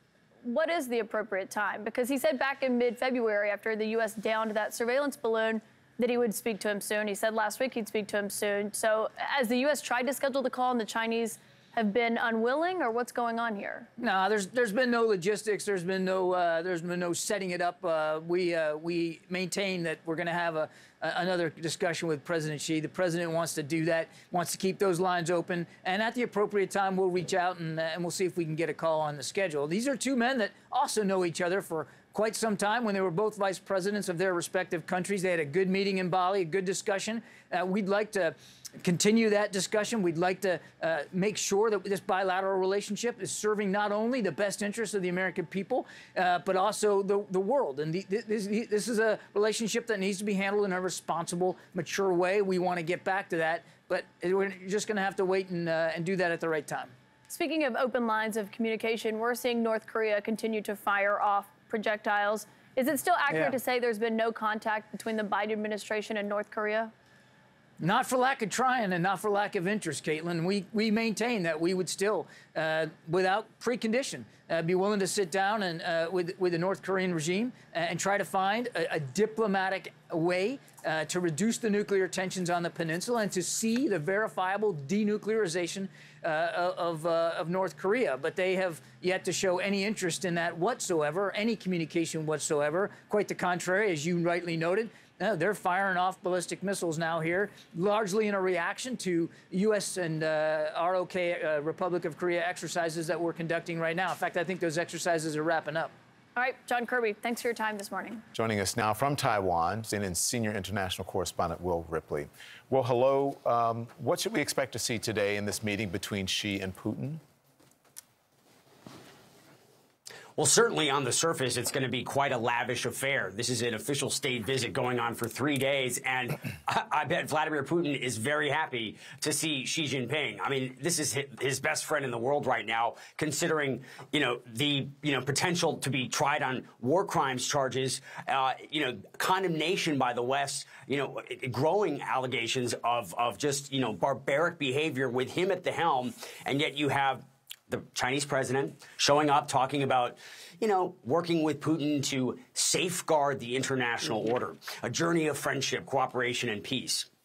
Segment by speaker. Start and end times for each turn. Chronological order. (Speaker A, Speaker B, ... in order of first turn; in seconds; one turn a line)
Speaker A: 0.4-13.9
Speaker B: 14.0-56.9
Speaker A: 57.3-66.9
Speaker B: 63.3-63.6
Speaker B: 67.8-105.9
Speaker A: 106.4-108.2
Speaker C: 108.3-117.2
Speaker D: 120.4-157.1